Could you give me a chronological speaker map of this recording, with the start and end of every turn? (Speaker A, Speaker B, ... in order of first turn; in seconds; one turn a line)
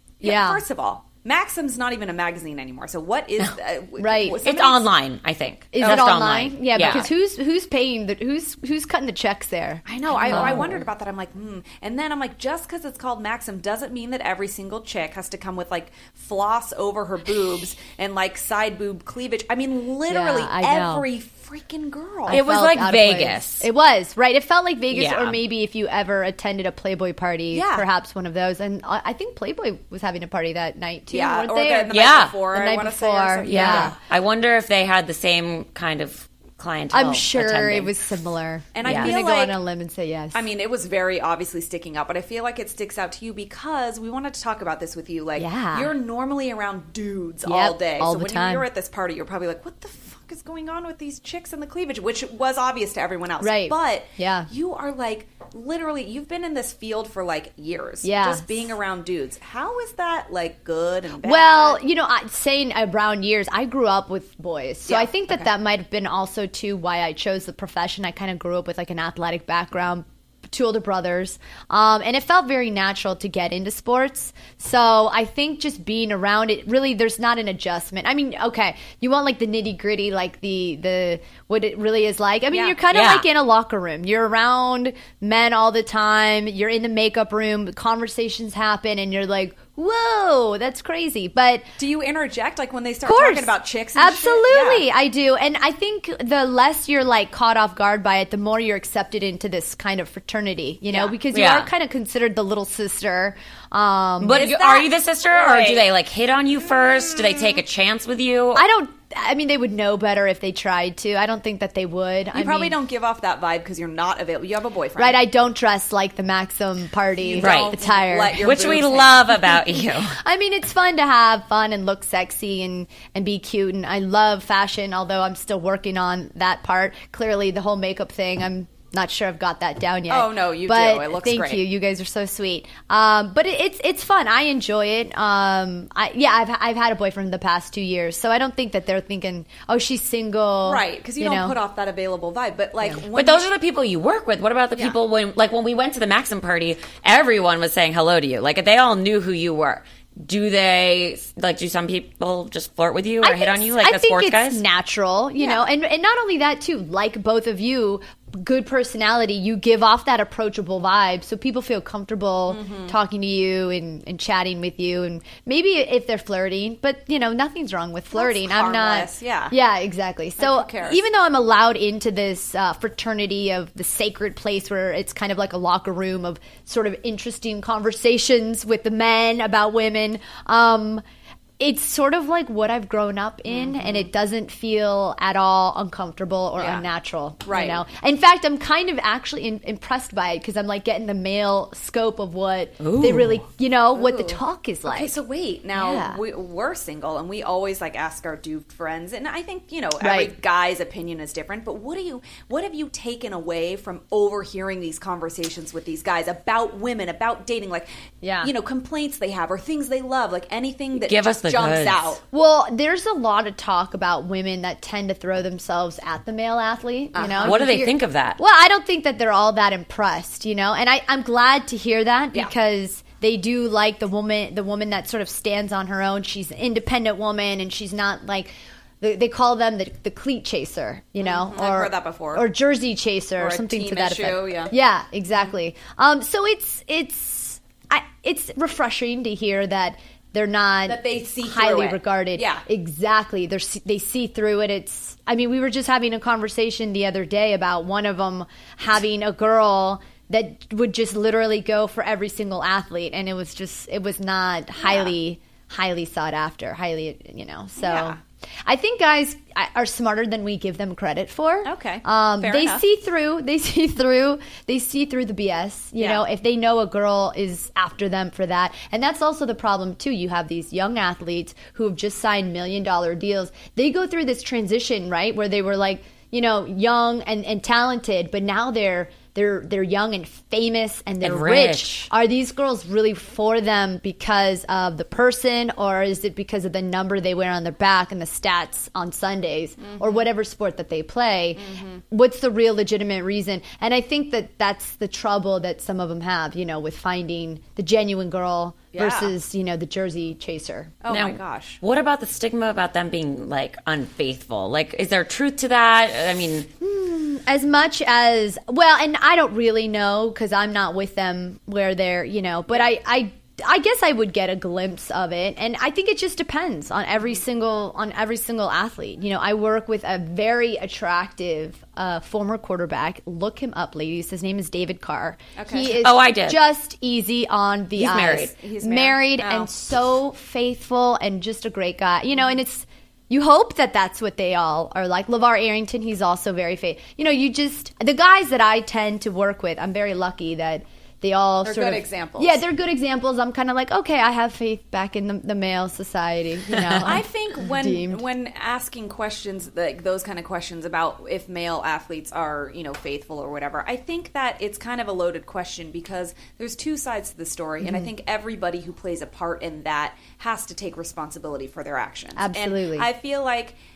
Speaker A: 0.2-4.8
Speaker B: 0.2-0.6
Speaker B: 4.0-4.4
Speaker C: 4.4-7.1
Speaker B: 5.7-10.8
Speaker A: 5.8-6.1
Speaker A: 9.8-22.4
Speaker C: 10.3-10.8
Speaker B: 20.1-21.1
Speaker B: 22.3-34.0
Speaker C: 22.3-23.6
Speaker C: 24.9-25.4
Speaker A: 27.5-27.9
Speaker A: 31.1-34.0
Speaker C: 31.9-32.4
Speaker C: 33.4-37.9
Speaker B: 36.9-40.4
Speaker A: 38.7-39.6
Speaker C: 38.8-39.1
Speaker A: 40.3-61.8
Speaker B: 45.4-45.9
Speaker B: 47.4-48.7
Speaker B: 53.4-54.5
Speaker B: 58.0-58.7
Speaker B: 61.2-91.7
Speaker A: 64.9-65.5
Speaker A: 82.5-82.8
Speaker C: 82.9-83.2
Speaker A: 91.8-94.8
Speaker B: 93.0-104.9
Speaker A: 100.9-101.2
Speaker C: 101.3-101.7
Speaker C: 104.2-108.6
Speaker A: 105.3-105.8
Speaker A: 106.8-107.6
Speaker B: 108.5-112.8
Speaker A: 112.3-115.2
Speaker B: 115.0-118.8
Speaker A: 117.2-119.4
Speaker C: 117.4-117.8
Speaker C: 118.4-120.2
Speaker B: 119.4-141.6
Speaker A: 130.1-131.6
Speaker A: 140.6-143.4
Speaker C: 143.1-154.6
Speaker B: 153.2-181.0
Speaker A: 155.4-155.6
Speaker A: 162.5-162.9
Speaker A: 168.1-169.5
Speaker A: 170.4-171.0
Speaker B: 181.6-195.2
Speaker A: 183.4-184.1
Speaker A: 186.6-186.9
Speaker A: 187.4-187.8
Speaker C: 192.8-193.4
Speaker A: 193.9-207.9
Speaker B: 195.7-196.2
Speaker B: 200.0-200.3
Speaker B: 208.2-208.5
Speaker A: 208.4-212.2
Speaker C: 211.1-212.2
Speaker B: 212.3-300.9
Speaker A: 217.1-217.6
Speaker C: 217.4-218.4
Speaker A: 231.2-232.4
Speaker A: 233.4-234.7
Speaker A: 240.8-242.6
Speaker A: 254.8-255.1
Speaker A: 257.8-258.2
Speaker A: 261.6-262.8
Speaker A: 266.0-266.2
Speaker C: 281.2-282.1
Speaker A: 289.8-290.3
Speaker A: 291.6-292.0
Speaker A: 298.9-299.3
Speaker A: 301.0-301.8
Speaker C: 301.1-306.7
Speaker B: 306.8-348.2
Speaker A: 325.6-325.9
Speaker C: 325.9-326.6
Speaker C: 327.9-328.5
Speaker A: 328.5-329.7
Speaker A: 341.6-342.6
Speaker C: 346.7-347.0
Speaker A: 347.0-363.8
Speaker B: 357.8-358.1
Speaker B: 362.4-363.1